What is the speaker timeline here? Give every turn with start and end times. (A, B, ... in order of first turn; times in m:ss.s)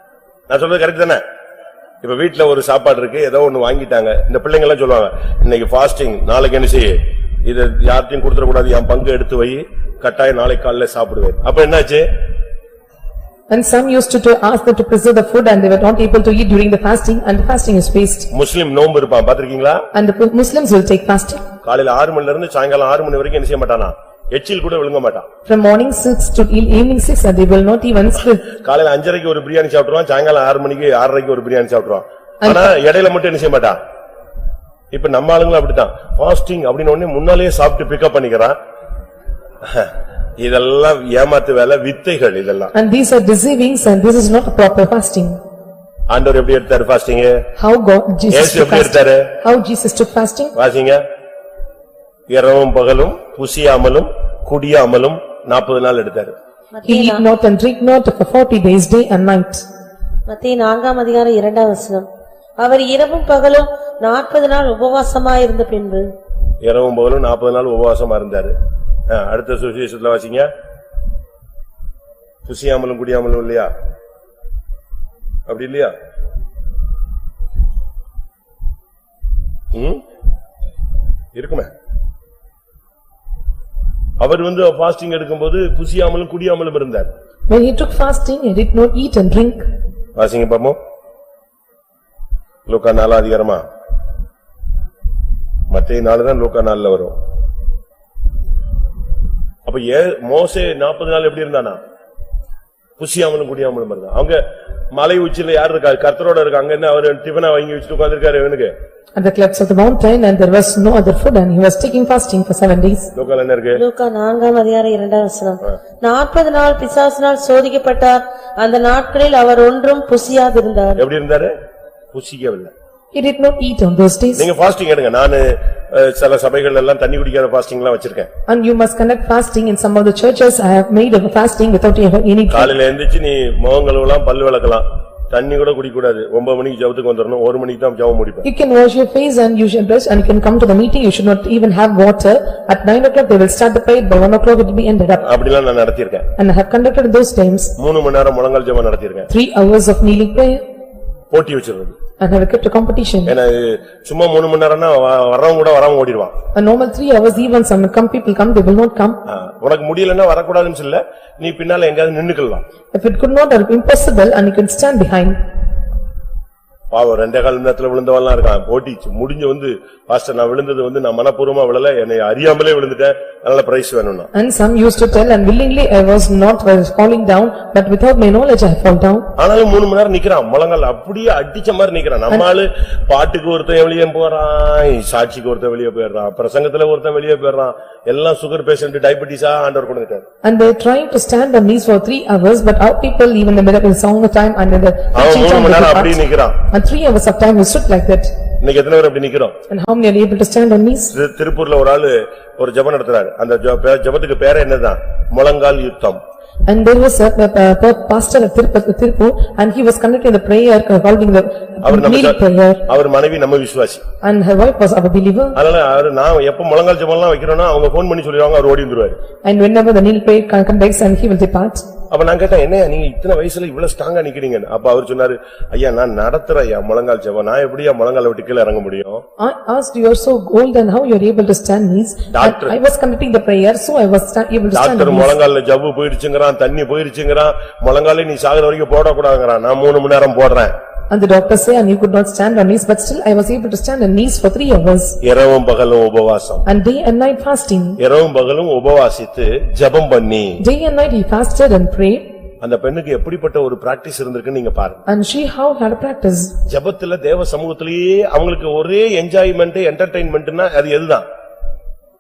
0:00.5-0:01.2 A
0:02.0-0:12.0 A
0:13.5-0:18.3 B
0:18.3-0:19.8 A
0:19.9-0:21.4 B
0:21.6-0:25.3 A
0:25.5-0:28.4 B
0:28.5-0:33.8 A
0:32.4-0:32.7 B
0:34.9-0:38.6 A
0:39.6-0:42.7 A
0:42.7-0:45.4 B
0:46.1-0:47.4 A
0:47.6-0:50.5 B
0:48.3-0:49.4 A
0:50.6-0:51.0 A
0:52.3-0:56.3 A
0:56.7-0:57.2 C
0:56.8-0:59.6 B
1:00.3-1:06.1 C
1:06.6-1:08.5 A
1:09.1-1:10.5 A
1:12.4-1:13.7 A
1:15.5-1:15.9 A
1:19.7-1:20.0 A
1:21.3-1:21.7 A
1:24.2-1:27.1 A
1:27.5-1:29.6 B
1:30.2-1:30.8 A
1:32.7-1:33.6 A
1:35.7-1:37.1 A
1:39.6-1:41.8 A
1:43.0-1:44.4 A
1:44.9-1:48.7 A
1:49.2-1:53.1 B
1:53.1-1:53.8 A
1:53.7-2:01.0 C
2:01.0-2:01.5 A
2:02.1-2:02.7 A
2:03.1-2:04.5 B
2:04.4-2:08.3 A
2:08.5-2:12.7 B
2:12.5-2:18.4 A
2:18.4-2:25.2 B
2:25.2-2:26.3 A
2:26.4-2:27.7 B
2:27.8-2:29.3 A
2:29.3-2:30.6 B
2:31.3-2:31.9 A
2:32.2-2:33.3 B
2:33.2-2:36.3 A
2:36.5-2:39.2 B
2:39.3-2:42.6 A
2:42.9-2:45.4 B
2:46.9-2:54.3 A
2:54.3-2:59.3 B
2:59.4-3:10.2 A
3:10.4-3:16.2 B
3:15.1-3:16.6 A
3:16.7-3:18.3 B
3:18.6-3:19.6 A
3:19.7-3:21.1 B
3:21.1-3:26.2 A
3:26.7-3:32.8 B
3:31.8-3:34.0 A
3:34.2-3:35.6 B
3:35.5-3:39.2 A
3:39.4-3:41.8 B
3:42.1-3:49.2 A
3:49.4-3:55.4 B
3:52.3-3:52.7 A
3:54.7-4:00.7 A
4:01.1-4:05.2 B
4:05.2-4:06.6 A
4:06.6-4:08.0 B
4:08.0-4:10.6 A
4:10.6-4:12.2 B
4:12.6-4:15.0 A
4:15.1-4:16.5 B
4:16.6-4:21.2 A